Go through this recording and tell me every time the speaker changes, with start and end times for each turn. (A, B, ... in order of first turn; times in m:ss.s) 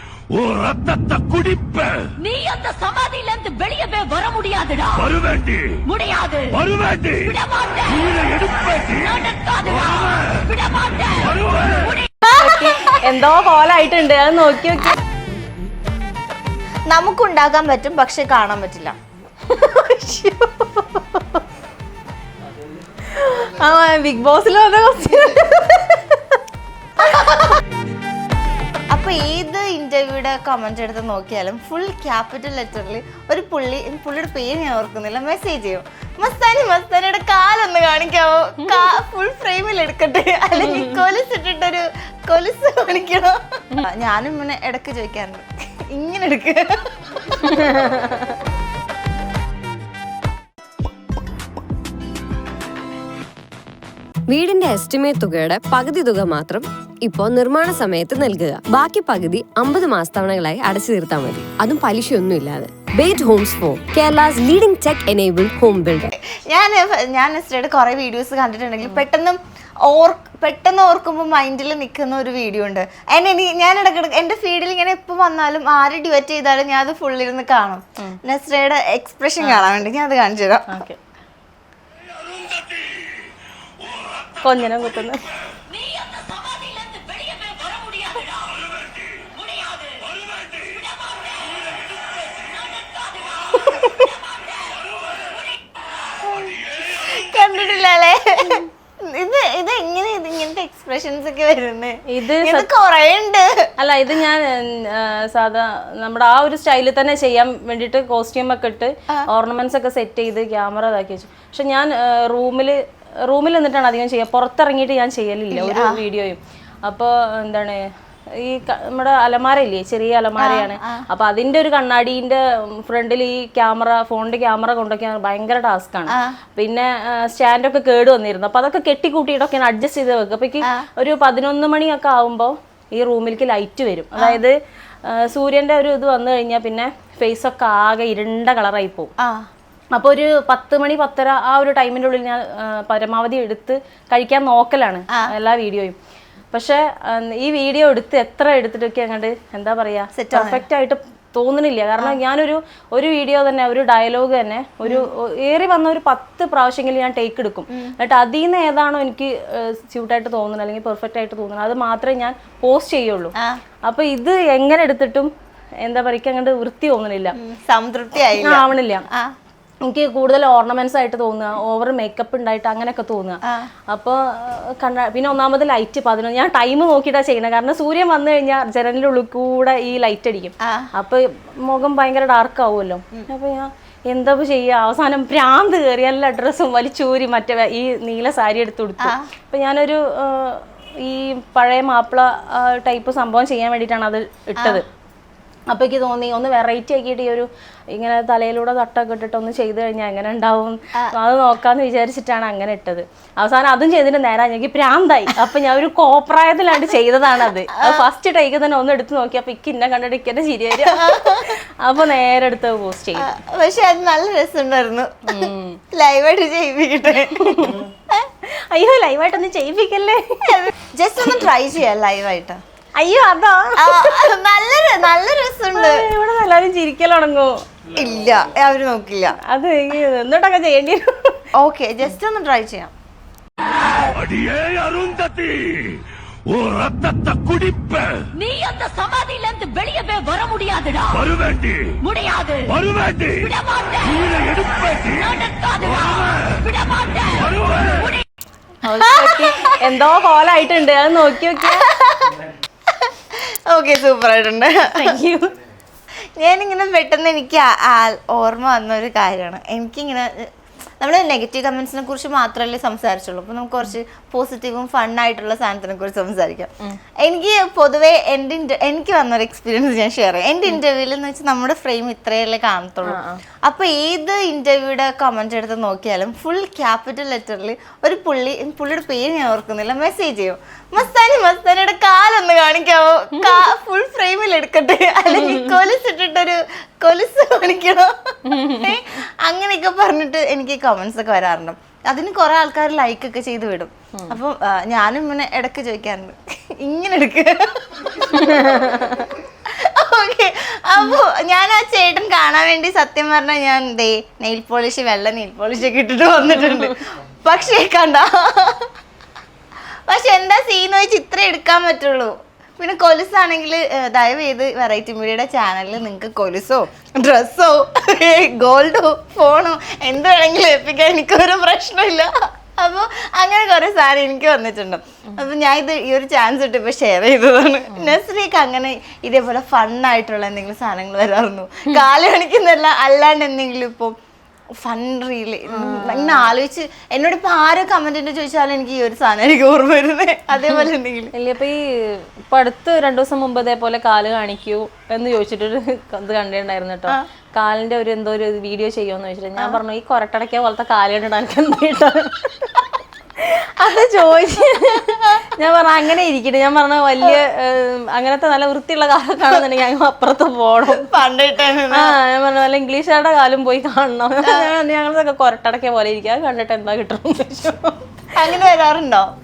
0:00.4-0:02.0 A
0:02.2-0:05.1 B
0:05.0-0:05.6 A
0:05.8-0:06.6 B
0:06.7-0:07.2 A
0:07.2-0:12.1 B
0:08.2-0:09.0 A
0:12.2-0:13.0 C
0:12.3-0:15.0 D
0:16.9-0:19.0 C
0:19.5-0:21.4 D
0:23.1-0:26.2 D
0:27.0-0:27.4 C
0:28.9-0:47.5 C
0:40.6-0:41.0 D
0:47.4-0:48.4 D
0:54.3-1:06.1 E
1:06.1-1:20.7 C
1:19.4-1:19.8 D
1:20.7-1:21.0 D
1:24.4-1:25.2 D
1:25.7-1:28.6 B
1:29.2-1:31.6 B
1:32.2-1:35.4 B
1:36.2-1:43.7 C
1:42.1-1:42.7 D
1:43.8-1:57.8 D
1:55.5-1:56.0 C
1:58.4-2:14.5 D
2:00.4-2:01.0 C
2:06.1-2:06.4 C
2:14.2-2:14.4 C
2:15.0-2:19.1 D
2:19.2-2:19.5 C
2:19.9-2:26.0 D
2:26.5-2:43.3 D
2:30.1-2:30.6 C
2:43.8-2:45.3 D
2:45.8-2:47.4 D
2:47.4-2:49.3 C
2:48.4-2:49.1 D
2:49.8-2:53.4 D
2:53.9-3:14.8 D
3:00.6-3:00.9 C
3:09.0-3:09.3 C
3:14.6-3:14.8 C
3:15.7-3:33.3 D
3:27.7-3:28.1 C
3:30.8-3:31.6 C
3:33.2-3:37.8 C
3:35.3-3:35.8 D
3:37.4-3:40.7 D
3:40.5-3:42.6 C
3:43.0-3:44.2 D
3:43.8-3:46.0 C
3:45.7-3:47.6 D
3:47.9-3:49.4 C
3:49.4-3:51.4 D
3:51.6-3:52.9 C
3:54.2-3:55.8 A
3:56.5-3:58.1 A
3:58.3-4:01.3 B
4:01.3-4:01.9 A
4:02.0-4:02.8 B
4:03.0-4:03.3 A
4:03.4-4:04.4 B
4:04.5-4:05.1 A
4:05.1-4:08.2 B
4:08.8-4:11.8 D
4:09.0-4:09.8 C
4:11.6-4:12.4 C
4:13.0-4:15.1 C
4:14.8-4:15.5 D
4:16.4-4:26.7 C
4:27.2-4:59.0 C
4:33.0-4:33.4 D
4:43.3-4:43.7 D
4:45.3-4:45.8 D
4:48.5-4:49.0 D
4:58.2-4:59.3 D
4:59.6-5:08.9 C
5:06.6-5:06.9 D
5:10.1-5:34.1 C
5:27.9-5:28.2 D
5:34.8-5:41.3 C
5:35.7-5:36.5 D
5:41.4-5:52.8 D
5:53.4-6:01.1 D
6:00.9-6:02.2 C
6:01.9-6:08.0 D
6:04.4-6:04.7 C
6:08.3-6:09.3 C